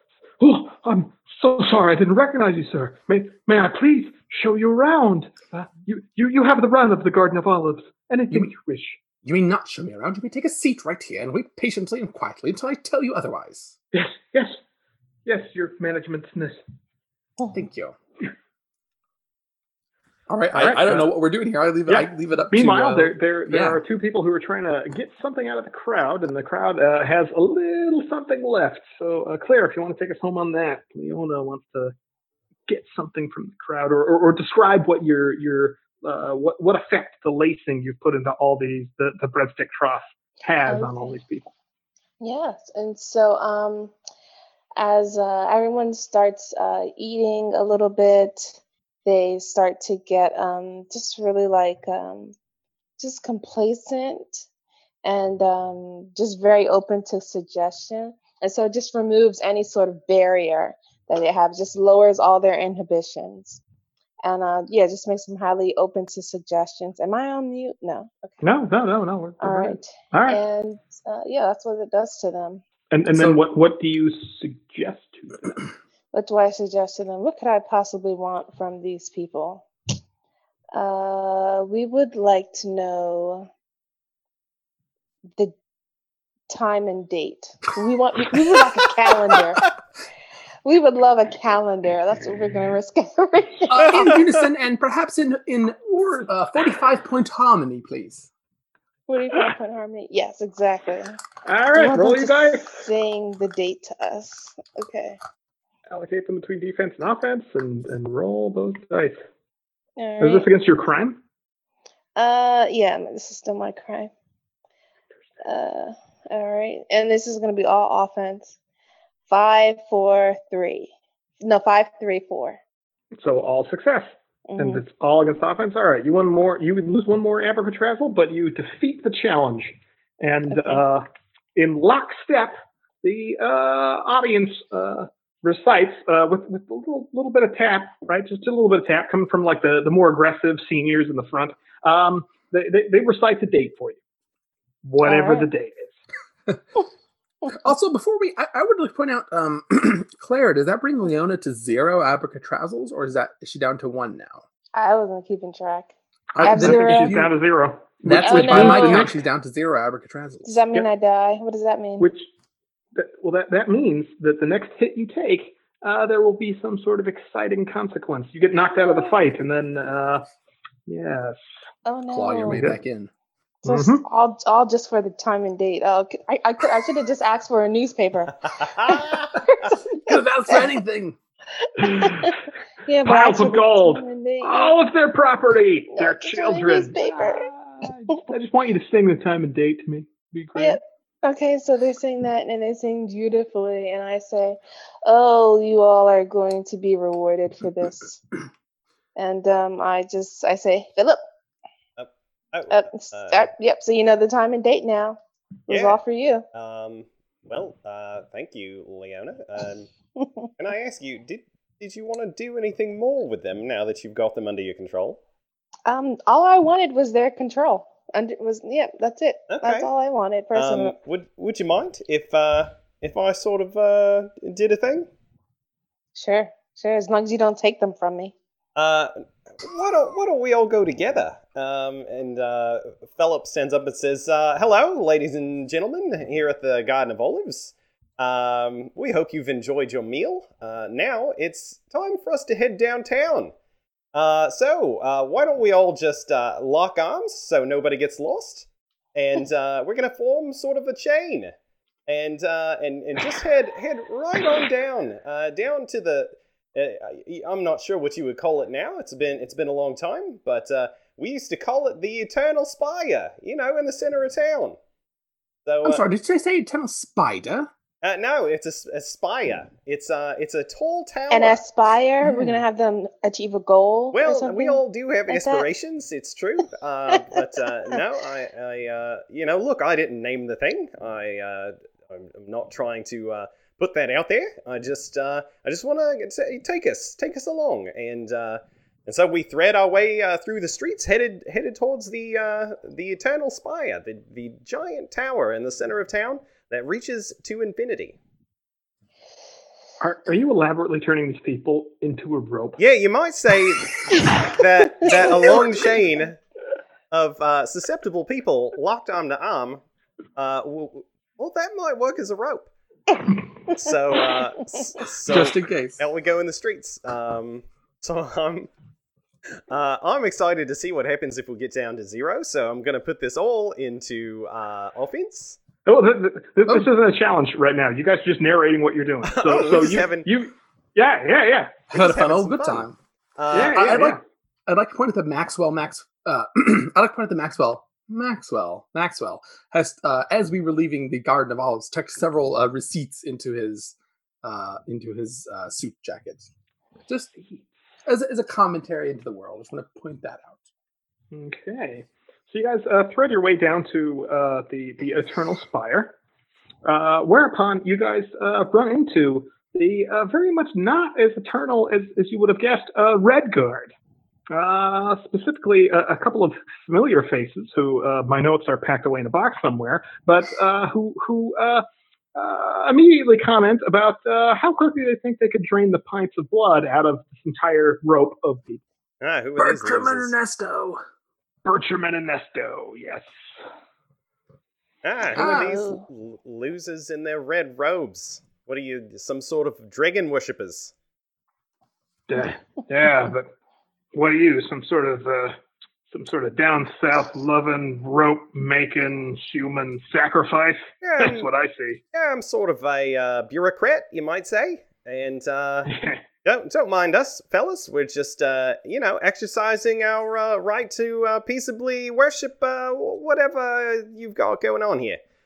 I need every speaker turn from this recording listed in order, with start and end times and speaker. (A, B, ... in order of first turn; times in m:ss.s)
0:00.4-0:09.0 A
0:09.2-0:13.8 B
0:13.9-0:14.6 A
0:15.3-0:16.6 A
0:17.5-0:18.0 B
0:20.3-0:23.8 B
0:20.6-0:21.2 A
0:21.9-0:31.9 A
0:32.7-0:41.4 A
0:40.7-0:41.1 C
0:42.2-0:43.9 C
0:44.8-0:52.4 C
0:53.0-0:54.5 C
0:55.0-1:03.6 C
1:04.2-1:08.4 C
1:08.4-1:10.4 A
1:09.4-1:12.6 C
1:12.9-1:15.6 A
1:13.1-1:13.4 B
1:16.1-1:19.7 C
1:20.7-1:23.5 C
1:26.5-1:29.6 C
1:30.6-1:34.2 C
1:33.7-1:38.3 B
1:39.1-1:41.2 C
1:41.4-1:42.8 A
1:41.8-1:45.2 C
1:45.9-1:49.2 A
1:50.0-1:50.5 C
1:50.2-1:51.2 A
1:52.2-1:54.1 C
1:55.4-1:58.6 C
1:59.3-2:02.6 C
2:03.2-2:11.0 A
2:04.5-2:04.8 C
2:10.5-2:10.8 C
2:11.6-2:24.0 A
2:24.8-2:25.9 A
2:25.0-2:25.5 C
2:27.5-2:34.4 B
2:34.7-2:37.2 C
2:36.4-2:37.3 B
2:36.4-2:39.2 A
2:38.0-2:40.6 B
2:38.2-2:39.1 C
2:40.4-2:42.1 C
2:42.0-2:42.3 A
2:43.0-2:50.3 A
2:50.9-2:51.4 A
2:51.8-2:52.6 C
2:52.1-2:53.1 B
2:52.5-2:52.8 A
2:53.6-2:59.8 C
2:53.7-2:54.0 A
2:58.7-2:59.3 D
2:59.9-3:01.2 B
3:01.8-3:02.3 C
3:01.8-3:02.3 A
3:02.8-3:04.8 C
3:03.0-3:10.8 A
3:06.0-3:07.5 C
3:10.6-3:18.2 C
3:19.2-3:21.2 C
3:22.0-3:23.5 D
3:22.7-3:26.5 C
3:25.7-3:26.0 D
3:26.5-3:29.9 D
3:30.6-3:35.2 D
3:35.9-3:41.0 C
3:39.5-3:39.9 D
3:40.5-3:45.1 D
3:46.2-3:48.4 C
3:48.8-4:03.5 D
4:04.1-4:11.5 D
4:12.1-4:24.8 D
4:25.7-4:26.0 D
4:25.8-4:27.7 B
4:28.0-4:31.6 D
4:31.3-4:35.7 C
4:34.1-4:58.2 D
5:00.0-5:02.8 A
5:02.8-5:06.4 D
5:07.1-5:09.8 D
5:10.4-5:12.7 D
5:13.7-5:18.7 D
5:14.8-5:16.0 B
5:19.7-5:25.6 D
5:25.9-5:31.8 A
5:29.2-5:30.3 D
5:31.9-5:33.0 B
5:31.9-5:33.9 D
5:33.5-5:34.2 A
5:33.6-5:46.5 B
5:47.1-5:47.4 B
5:48.1-5:50.6 B
5:51.3-5:56.2 A
5:56.8-6:03.9 A
6:04.5-6:11.8 A
6:12.4-6:18.8 A
6:19.2-6:20.3 D
6:19.6-6:21.0 B
6:21.6-6:23.3 A
6:25.0-6:30.9 D
6:25.4-6:26.0 C
6:25.4-6:25.7 B
6:32.3-6:33.5 A
6:34.1-6:35.6 A
6:36.1-6:42.0 A
6:41.0-6:41.5 D
6:42.1-6:45.9 D
6:45.9-6:46.2 A
6:46.4-6:55.2 D